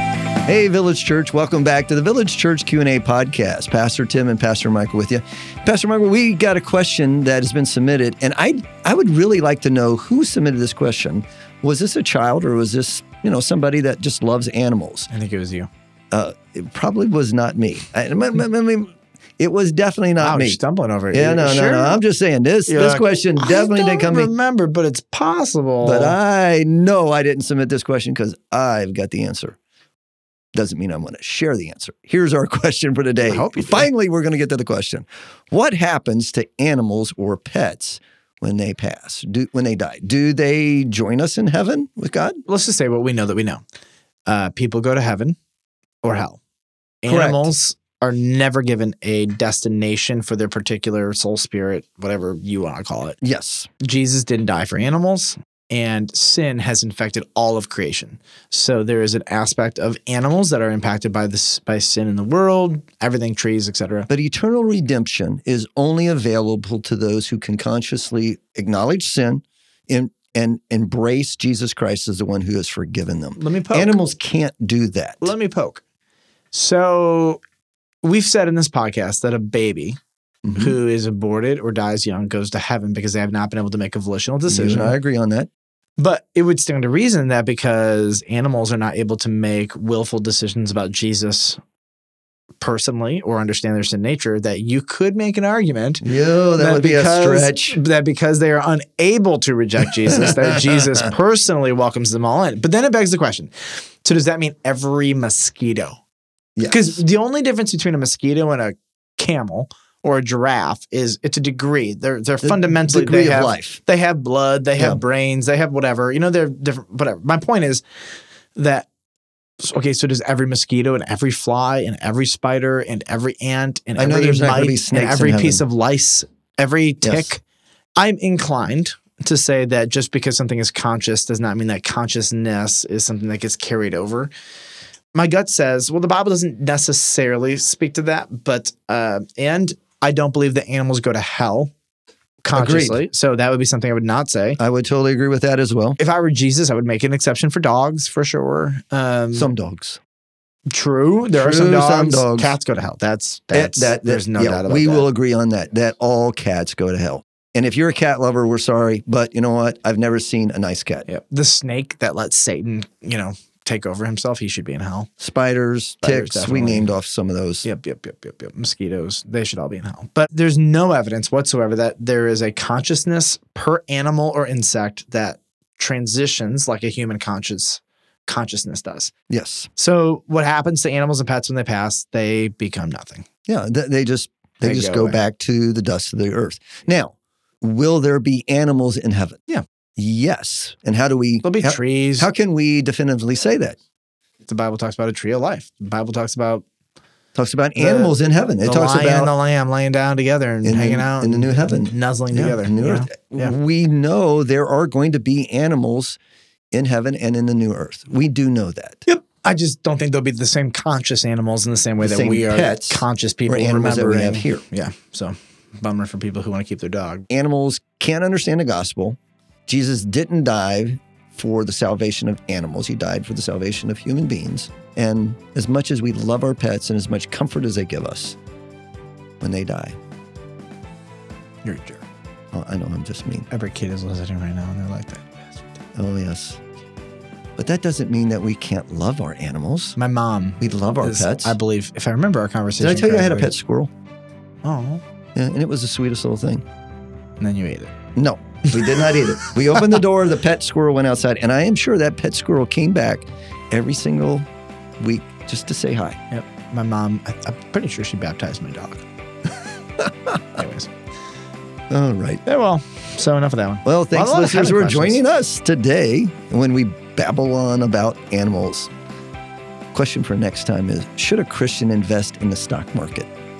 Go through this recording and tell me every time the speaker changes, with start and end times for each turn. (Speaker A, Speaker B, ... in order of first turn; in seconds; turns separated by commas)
Speaker A: 0.5-15.1, Speaker B: 15.1-15.7, Speaker A: 16.1-20.6, Speaker B: 20.2-22.0, Speaker A: 21.1-24.3, Speaker B: 22.7-26.1, Speaker A: 25.8-29.6, Speaker A: 30.5-42.4, Speaker B: 33.3-33.9, Speaker B: 42.5-43.6, Speaker B: 44.2-45.4, Speaker B: 46.0-46.4, Speaker B: 47.0-53.2, Speaker A: 47.1-47.5, Speaker A: 53.2-53.7, Speaker B: 53.8-64.1, Speaker A: 64.1-75.3, Speaker B: 73.3-74.0, Speaker B: 75.2-75.8, Speaker B: 76.5-77.4, Speaker B: 78.0-80.0, Speaker A: 80.4-80.7, Speaker B: 80.5-85.0, Speaker A: 84.5-85.5, Speaker B: 86.0-91.6, Speaker B: 92.6-106.0, Speaker A: 96.0-97.8, Speaker A: 100.1-101.1, Speaker A: 106.5-107.0, Speaker B: 106.6-117.8, Speaker A: 112.4-113.8, Speaker B: 118.5-118.9, Speaker B: 119.6-127.4, Speaker A: 124.0-125.6, Speaker A: 127.0-127.3, Speaker B: 128.0-134.3, Speaker B: 135.1-141.7, Speaker B: 142.4-144.6, Speaker A: 142.5-143.1, Speaker A: 144.6-146.0, Speaker B: 146.0-149.5, Speaker A: 149.3-150.0, Speaker B: 150.7-155.1, Speaker A: 151.3-152.6, Speaker A: 153.5-161.1, Speaker B: 161.1-165.1, Speaker A: 165.2-167.7, Speaker B: 166.0-166.9, Speaker B: 167.6-179.1, Speaker A: 179.3-179.7, Speaker B: 179.7-183.2, Speaker A: 183.5-189.4, Speaker B: 184.6-185.2, Speaker A: 190.0-193.8, Speaker B: 191.4-192.3, Speaker B: 194.4-196.6, Speaker A: 197.3-199.3, Speaker B: 197.8-203.5, Speaker A: 200.6-206.2, Speaker A: 206.7-209.0, Speaker B: 209.1-217.2, Speaker A: 212.0-214.6, Speaker A: 217.3-228.4, Speaker A: 229.4-230.0, Speaker B: 231.6-232.0, Speaker A: 232.5-233.4, Speaker B: 233.5-235.7, Speaker A: 235.9-236.6, Speaker A: 237.6-240.0, Speaker B: 239.9-243.5, Speaker A: 240.6-241.6, Speaker A: 242.8-243.9, Speaker B: 244.6-245.0, Speaker A: 245.3-246.6, Speaker B: 247.4-247.9, Speaker A: 248.2-254.4, Speaker B: 248.7-249.2, Speaker A: 255.0-256.2, Speaker B: 256.3-259.0, Speaker B: 260.3-260.9, Speaker A: 261.9-262.4, Speaker B: 262.4-265.2, Speaker A: 263.8-268.9, Speaker A: 269.9-273.3